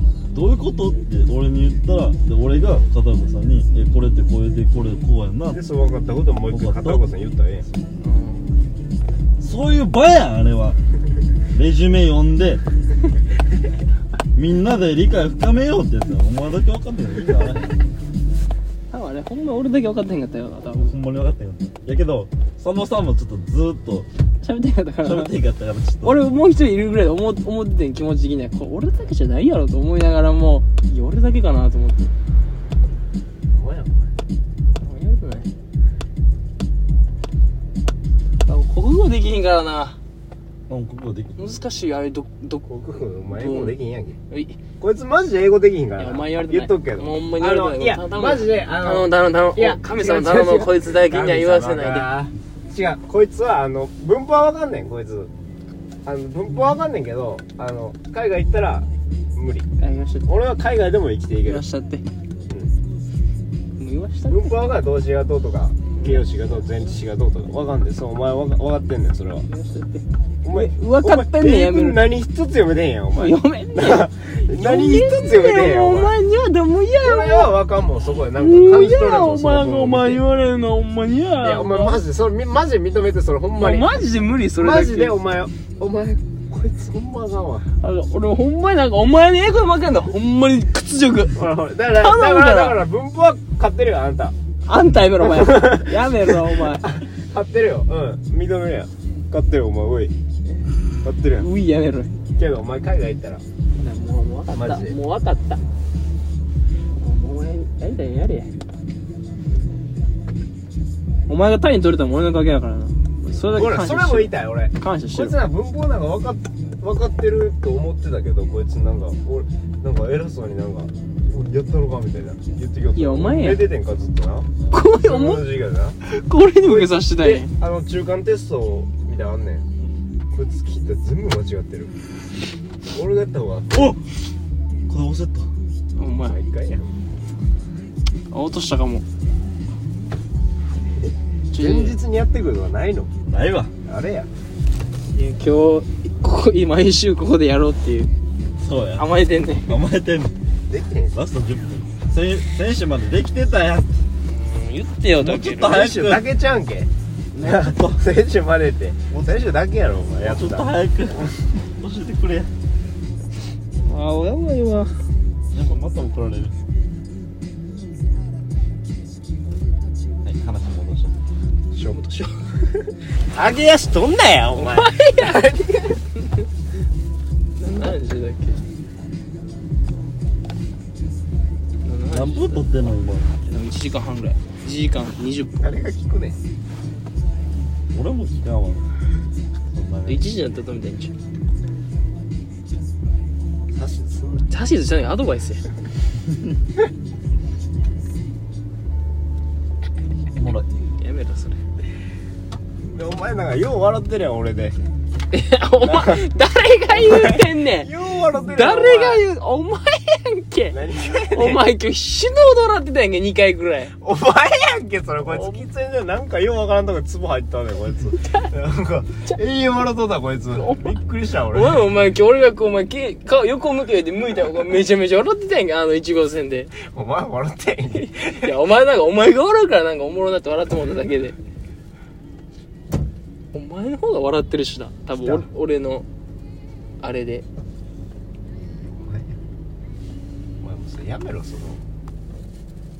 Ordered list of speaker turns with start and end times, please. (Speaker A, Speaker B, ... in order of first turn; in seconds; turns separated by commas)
Speaker A: 0.3-5.6, Speaker B: 5.5-7.7, Speaker A: 6.5-7.0, Speaker C: 8.0-8.6, Speaker A: 9.4-10.8, Speaker A: 11.5-12.6, Speaker A: 14.3-17.8, Speaker C: 18.9-20.9, Speaker A: 20.8-24.1, Speaker C: 24.4-25.4, Speaker A: 25.0-26.2, Speaker C: 26.0-32.1, Speaker B: 33.5-34.1, Speaker C: 34.8-35.5, Speaker C: 38.5-40.0, Speaker A: 40.7-41.6, Speaker C: 41.4-42.7, Speaker B: 42.7-44.2, Speaker C: 43.3-43.8, Speaker C: 44.3-44.6, Speaker B: 44.8-55.3, Speaker C: 46.0-52.1, Speaker B: 56.0-59.7, Speaker C: 59.8-60.3, Speaker B: 60.3-61.6, Speaker C: 61.5-62.0, Speaker C: 63.8-64.6, Speaker B: 64.3-69.5, Speaker C: 65.9-66.3, Speaker C: 69.5-72.1, Speaker B: 70.4-76.2, Speaker C: 73.2-77.6, Speaker B: 77.0-80.2, Speaker C: 78.4-82.0, Speaker B: 81.4-84.0, Speaker C: 83.5-85.2, Speaker B: 84.6-87.7, Speaker C: 87.8-91.4, Speaker B: 91.3-94.3, Speaker C: 91.9-92.8, Speaker C: 94.7-97.0, Speaker B: 95.2-100.1, Speaker B: 101.0-101.5, Speaker C: 101.4-102.1, Speaker B: 102.4-103.4, Speaker C: 103.8-105.6, Speaker B: 104.5-105.0, Speaker C: 107.0-108.5, Speaker C: 111.3-115.4, Speaker B: 113.4-126.0, Speaker C: 123.0-123.7, Speaker C: 124.7-125.5, Speaker C: 126.0-127.5, Speaker B: 126.6-129.7, Speaker B: 130.3-131.9, Speaker B: 132.9-133.8, Speaker A: 133.7-134.0, Speaker A: 134.9-135.5, Speaker C: 136.0-136.4, Speaker B: 136.2-137.0, Speaker C: 138.3-139.1, Speaker B: 141.0-143.1, Speaker C: 141.5-142.0, Speaker A: 143.3-143.7, Speaker B: 143.8-144.3, Speaker C: 145.1-148.1, Speaker A: 148.6-150.3, Speaker C: 149.0-149.8, Speaker B: 150.7-151.2, Speaker A: 151.1-154.0, Speaker C: 154.3-155.9, Speaker A: 155.2-156.3, Speaker B: 155.6-161.3, Speaker A: 157.3-158.1, Speaker A: 160.2-162.5, Speaker C: 163.8-164.9, Speaker A: 165.5-166.6, Speaker A: 170.2-171.2, Speaker B: 171.7-172.0, Speaker C: 171.9-172.5, Speaker B: 173.3-176.0, Speaker C: 174.5-176.3, Speaker C: 177.6-178.7, Speaker C: 181.8-182.7, Speaker A: 182.1-183.3, Speaker C: 183.4-185.7, Speaker B: 185.6-186.4, Speaker A: 187.9-188.9, Speaker A: 189.7-190.3, Speaker C: 190.1-191.1, Speaker B: 193.7-194.5, Speaker C: 194.5-195.7, Speaker A: 200.3-200.7, Speaker C: 201.0-201.6, Speaker B: 202.9-204.8, Speaker C: 205.3-207.9, Speaker B: 205.8-206.3, Speaker B: 206.9-209.2, Speaker C: 208.5-213.9, Speaker B: 210.7-211.7, Speaker B: 214.0-221.8, Speaker C: 215.3-215.6, Speaker C: 220.6-221.0, Speaker C: 221.5-226.7, Speaker B: 226.8-228.6, Speaker C: 228.0-231.4, Speaker C: 233.5-236.1, Speaker B: 235.2-235.5, Speaker C: 237.0-237.4, Speaker B: 238.6-239.4, Speaker B: 240.6-241.8